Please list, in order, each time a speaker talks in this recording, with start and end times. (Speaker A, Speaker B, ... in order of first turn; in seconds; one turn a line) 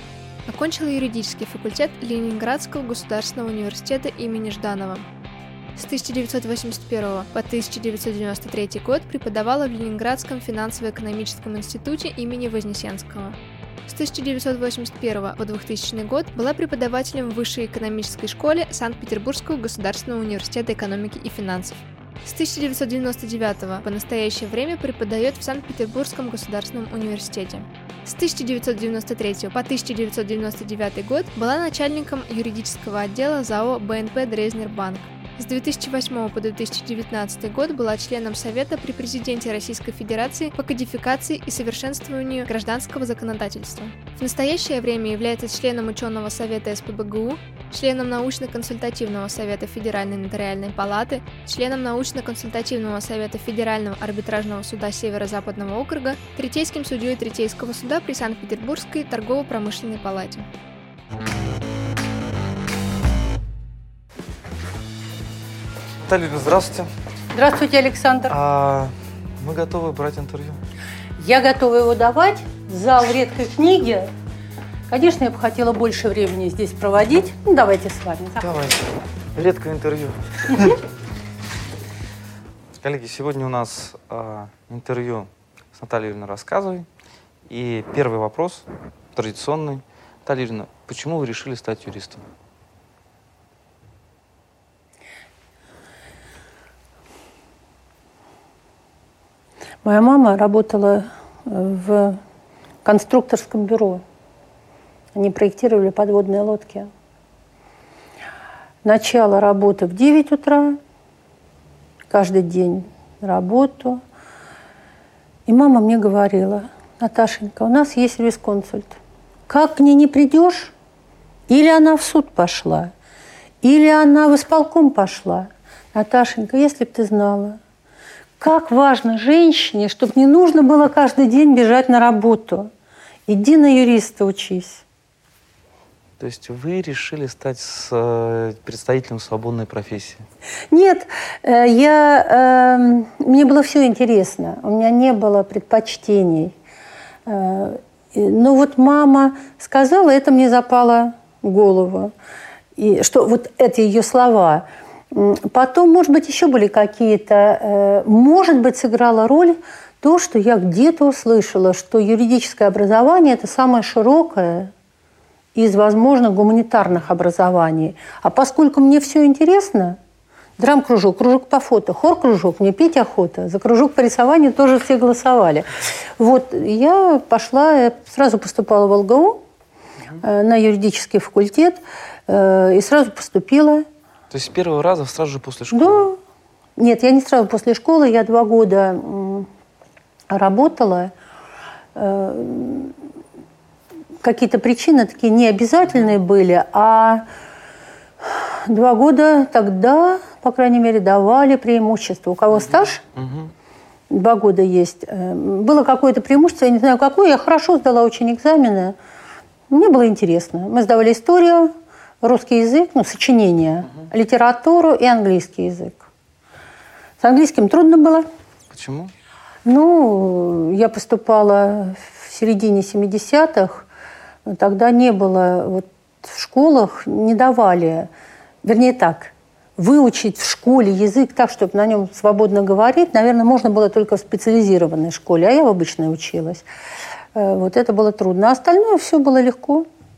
Speaker A: 0.5-5.0
Speaker A: 5.8-60.5
Speaker B: 66.1-66.9
Speaker C: 67.3-68.3
Speaker B: 68.3-70.6
Speaker C: 71.2-74.1
Speaker C: 74.9-78.5
Speaker B: 78.4-80.8
Speaker B: 82.8-86.9
Speaker B: 87.5-92.2
Speaker C: 99.8-102.2
Speaker C: 102.8-104.0
Speaker C: 105.1-106.9
Speaker C: 108.8-110.8
Speaker C: 112.1-114.0
Speaker C: 115.5-119.0
Speaker C: 119.5-120.7
Speaker C: 121.5-122.9
Speaker C: 123.6-127.6
Speaker C: 128.4-132.7
Speaker C: 133.3-134.8
Speaker B: 136.2-140.2
Speaker C: 140.7-146.5
Speaker C: 147.2-152.1
Speaker C: 152.8-164.7
Speaker C: 165.5-170.0
Speaker C: 170.6-179.4
Speaker C: 180.2-183.8
Speaker B: 184.3-186.1
Speaker C: 185.7-186.2
Speaker C: 186.8-189.5
Speaker C: 190.3-191.1
Speaker C: 191.9-192.9
Speaker C: 194.2-197.2
Speaker C: 198.2-203.0
Speaker B: 202.5-203.5
Speaker C: 204.1-208.9
Speaker C: 209.7-216.1
Speaker C: 217.2-218.2
Speaker B: 218.7-219.1
Speaker C: 219.6-223.8
Speaker C: 224.4-228.1
Speaker C: 228.6-236.7
Speaker C: 237.3-239.9